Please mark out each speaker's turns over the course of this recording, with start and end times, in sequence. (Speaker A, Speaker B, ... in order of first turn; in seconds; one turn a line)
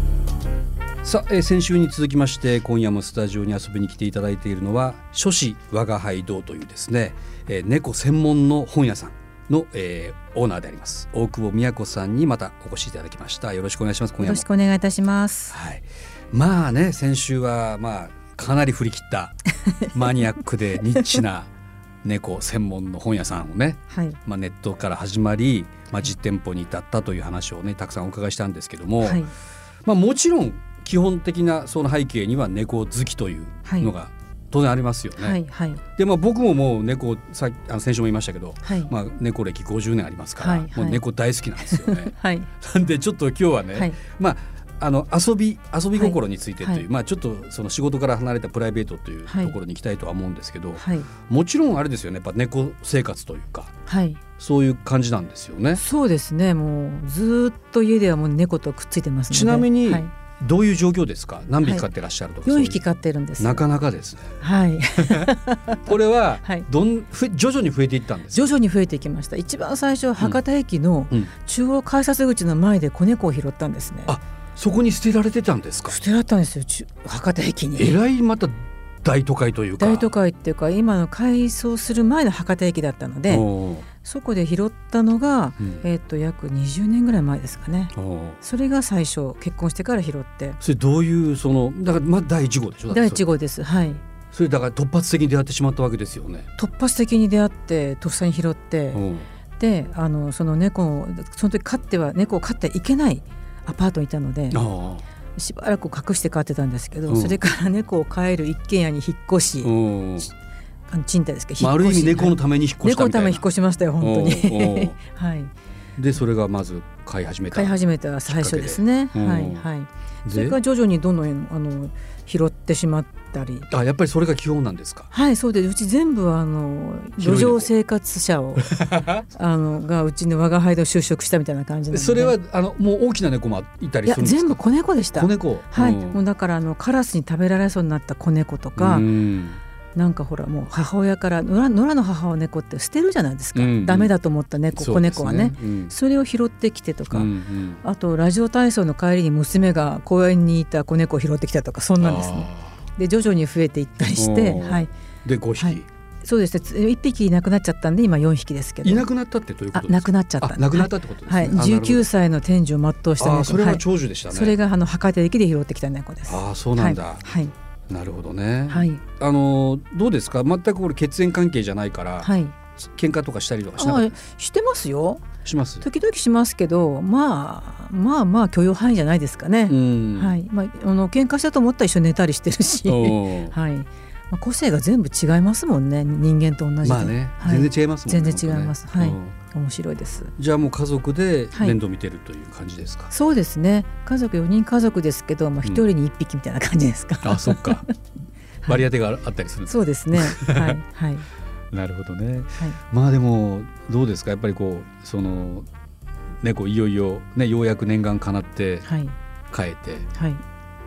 Speaker A: 1.0-14.4
Speaker B: 14.2-15.6
Speaker A: 15.5-19.4
Speaker A: 19.9-21.5
Speaker A: 22.0-29.2
Speaker B: 23.9-24.2
Speaker B: 29.0-29.3
Speaker A: 29.8-35.4
Speaker B: 33.6-33.9
Speaker B: 35.2-35.8
Speaker A: 36.0-53.7
Speaker B: 38.6-38.9
Speaker B: 40.4-41.0
Speaker B: 41.6-42.5
Speaker B: 45.9-46.8
Speaker B: 49.3-49.5
Speaker B: 50.8-51.1
Speaker B: 53.9-54.2
Speaker A: 54.4-55.8
Speaker B: 55.8-60.1
Speaker A: 59.3-62.8
Speaker B: 62.4-63.6
Speaker A: 63.4-64.4
Speaker B: 64.4-65.9
Speaker A: 65.0-65.3
Speaker A: 65.8-68.5
Speaker B: 68.3-74.1
Speaker A: 74.1-76.0
Speaker B: 75.9-78.0
Speaker A: 77.7-80.1
Speaker B: 79.8-83.5
Speaker A: 83.3-83.9
Speaker B: 84.0-90.6
Speaker A: 85.6-85.8
Speaker A: 87.9-88.4
Speaker A: 90.6-93.3
Speaker B: 92.9-94.0
Speaker A: 94.3-96.5
Speaker B: 96.6-99.0
Speaker A: 98.9-99.2
Speaker B: 99.6-104.6
Speaker A: 104.5-105.0
Speaker B: 105.4-109.7
Speaker A: 107.1-107.4
Speaker A: 109.6-110.3
Speaker B: 110.9-115.5
Speaker A: 111.6-113.5
Speaker A: 114.0-115.0
Speaker A: 116.0-119.7
Speaker B: 117.5-123.7
Speaker A: 120.2-120.6
Speaker A: 123.7-125.1
Speaker B: 125.1-132.3
Speaker A: 127.2-127.7
Speaker A: 128.6-129.2
Speaker A: 131.9-136.2
Speaker B: 134.0-139.1
Speaker A: 138.8-139.6
Speaker B: 139.9-147.3
Speaker A: 143.5-144.1
Speaker A: 144.7-145.9
Speaker A: 147.1-147.8
Speaker B: 147.8-154.9
Speaker A: 152.0-152.8
Speaker A: 154.2-155.8
Speaker B: 155.6-159.1
Speaker A: 158.8-162.1
Speaker B: 159.7-167.5
Speaker A: 163.2-164.6
Speaker A: 166.3-167.2
Speaker A: 167.9-174.1
Speaker B: 168.7-169.0
Speaker B: 172.2-172.5
Speaker B: 173.8-175.2
Speaker A: 175.4-175.8
Speaker B: 175.8-190.3
Speaker A: 179.7-180.3
Speaker A: 182.8-183.6
Speaker A: 186.8-189.3
Speaker A: 190.4-193.1
Speaker B: 193.1-197.9
Speaker A: 197.2-197.8
Speaker A: 198.7-200.8
Speaker B: 199.7-201.2
Speaker A: 201.7-205.7
Speaker A: 206.4-208.9
Speaker B: 208.8-209.1
Speaker A: 209.5-210.1
Speaker B: 210.2-210.4